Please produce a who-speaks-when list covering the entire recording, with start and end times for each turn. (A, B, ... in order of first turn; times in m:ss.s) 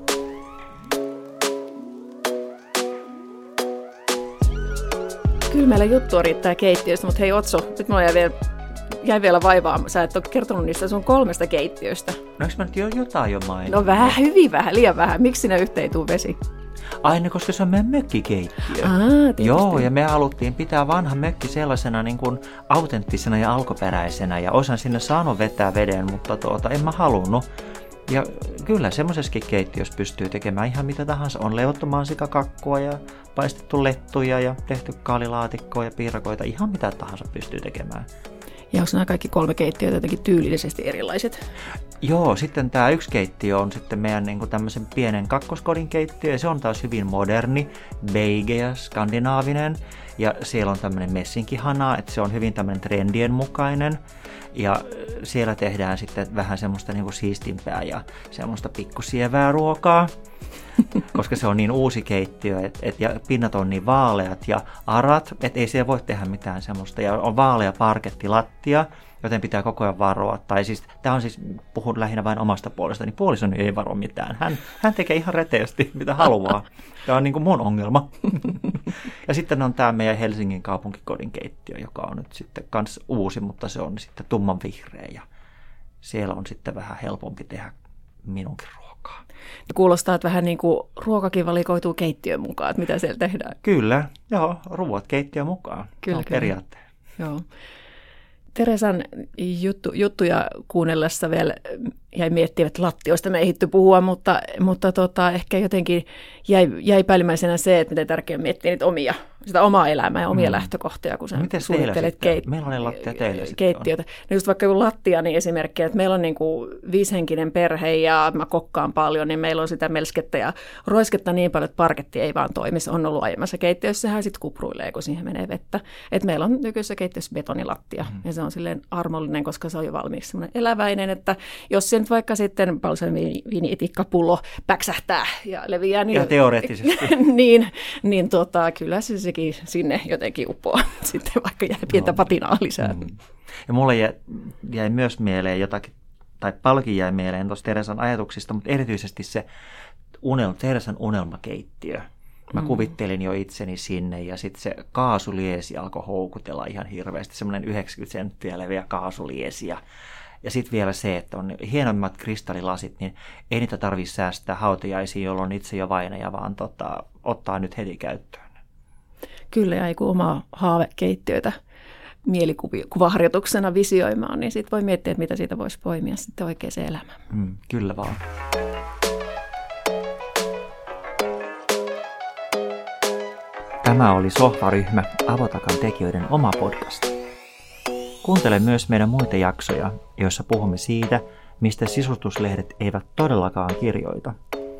0:05.5-0:08.4 A
0:08.9-0:12.2 A
0:12.4-0:14.2 B
0:13.7-0:16.4 A
0:17.0-0:27.4 B
0:18.8-0:19.9 A
0:28.1-0:38.0 B
0:38.7-0:41.4 A
0:42.0-0:54.0 B
0:54.5-1:00.1 B
1:01.1-1:25.2 B
1:26.0-1:29.2 B
1:29.7-1:33.6 A
1:33.6-1:36.8 B
1:36.1-1:36.5 A
1:37.2-1:37.4 A
1:38.5-2:23.1 A
1:50.3-1:50.7 B
1:51.3-1:53.9 B
2:16.1-2:17.2 B
2:22.9-2:23.2 B
2:23.7-2:29.4 B
2:30.2-2:39.8 B
2:40.4-2:48.5 B
2:49.5-2:51.5 A
2:52.2-2:57.2 A
2:57.3-2:58.2 B
3:03.8-3:07.1 B
3:08.2-3:14.3 B